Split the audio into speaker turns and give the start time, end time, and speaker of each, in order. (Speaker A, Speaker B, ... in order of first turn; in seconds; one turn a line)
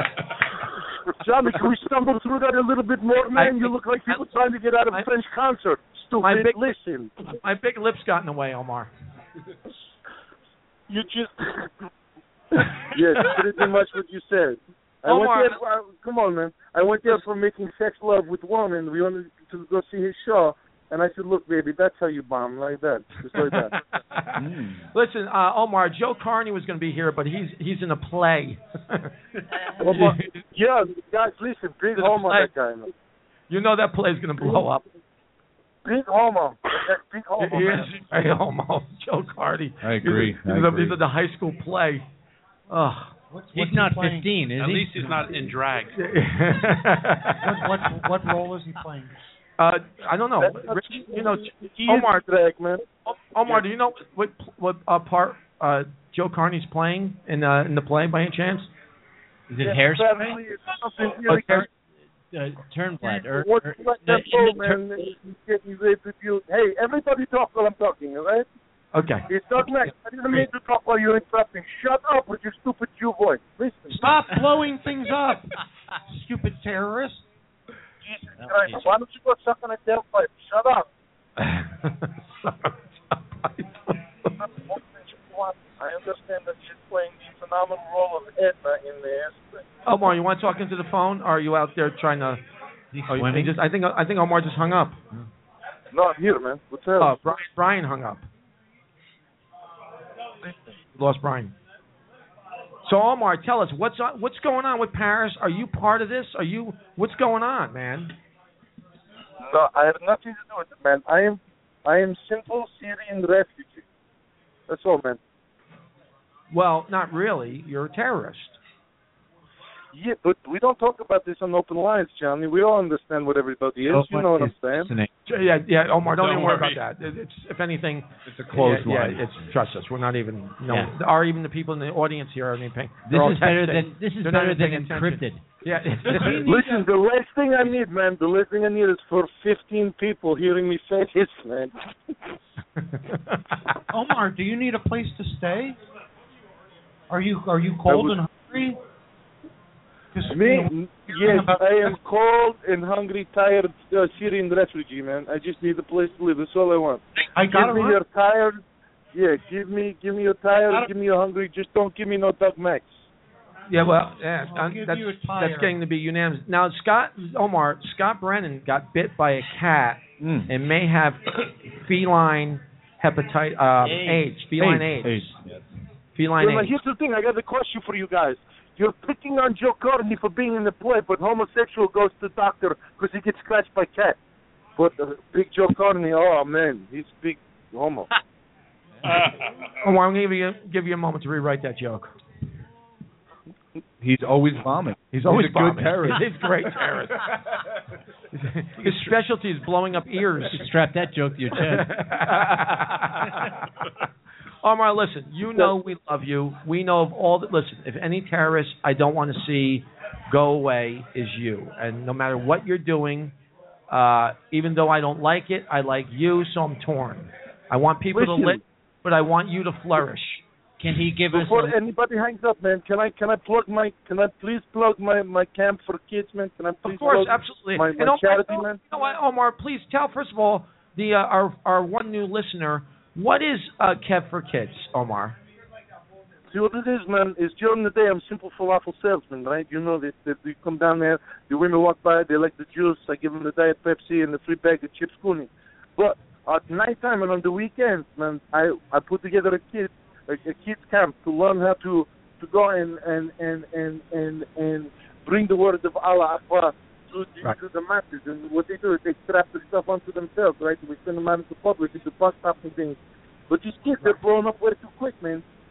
Speaker A: 1.1-7.1
Speaker B: 3.4-4.2
Speaker B: 6.2-6.6
Speaker B: 7.2-8.9
Speaker A: 10.9-11.7
Speaker A: 12.6-23.8
Speaker B: 15.1-15.6
Speaker B: 23.3-29.1
Speaker C: 24.4-24.8
Speaker A: 29.8-32.9
Speaker B: 29.8-30.4
Speaker B: 31.9-32.5
Speaker B: 33.5-34.8
Speaker A: 35.8-37.9
Speaker B: 37.4-42.0
Speaker C: 39.8-41.0
Speaker B: 42.7-43.1
Speaker D: 43.3-44.3
Speaker E: 43.5-45.4
Speaker F: 44.6-46.0
Speaker B: 46.0-47.9
Speaker D: 47.4-49.1
Speaker B: 49.6-52.2
Speaker A: 50.4-52.8
Speaker B: 53.0-58.7
Speaker E: 59.5-60.4
Speaker A: 59.6-61.7
Speaker B: 61.3-61.7
Speaker E: 61.3-61.6
Speaker E: 62.3-64.8
Speaker A: 63.2-68.5
Speaker B: 68.9-70.4
Speaker A: 69.3-74.4
Speaker D: 73.9-77.2
Speaker A: 78.0-80.9
Speaker E: 78.4-79.0
Speaker B: 81.4-84.3
Speaker A: 84.4-89.6
Speaker B: 89.8-92.4
Speaker E: 92.9-93.6
Speaker B: 93.1-95.0
Speaker A: 95.9-97.2
Speaker B: 97.0-98.2
Speaker A: 100.4-100.7
Speaker B: 101.0-101.5
Speaker B: 102.8-108.1
Speaker A: 109.4-113.8
Speaker A: 114.7-115.2
Speaker B: 116.5-118.6
Speaker A: 119.9-124.9
Speaker E: 123.9-125.1
Speaker B: 125.3-136.5
Speaker F: 126.2-126.8
Speaker C: 128.2-129.3
Speaker E: 133.1-135.4
Speaker D: 136.1-136.9
Speaker A: 136.3-141.7
Speaker B: 142.9-143.6
Speaker D: 143.9-145.8
Speaker D: 147.1-148.8
Speaker A: 147.9-148.2
Speaker D: 150.1-151.9
Speaker A: 150.3-158.6
Speaker D: 157.3-158.0
Speaker A: 159.1-163.0
Speaker B: 163.7-175.3
Speaker D: 164.4-165.8
Speaker C: 170.2-170.5
Speaker C: 174.0-175.6
Speaker B: 176.1-176.7
Speaker A: 176.4-184.2
Speaker A: 184.8-188.1
Speaker B: 189.8-192.1
Speaker C: 194.0-196.3
Speaker B: 195.1-197.3
Speaker B: 198.3-200.7
Speaker E: 200.5-201.9
Speaker B: 201.7-203.7
Speaker B: 204.6-213.3
Speaker B: 213.9-220.4
Speaker A: 218.1-218.6
Speaker E: 220.8-221.7
Speaker A: 221.3-228.8
Speaker B: 226.8-235.3
Speaker A: 236.5-263.0
Speaker A: 263.5-265.4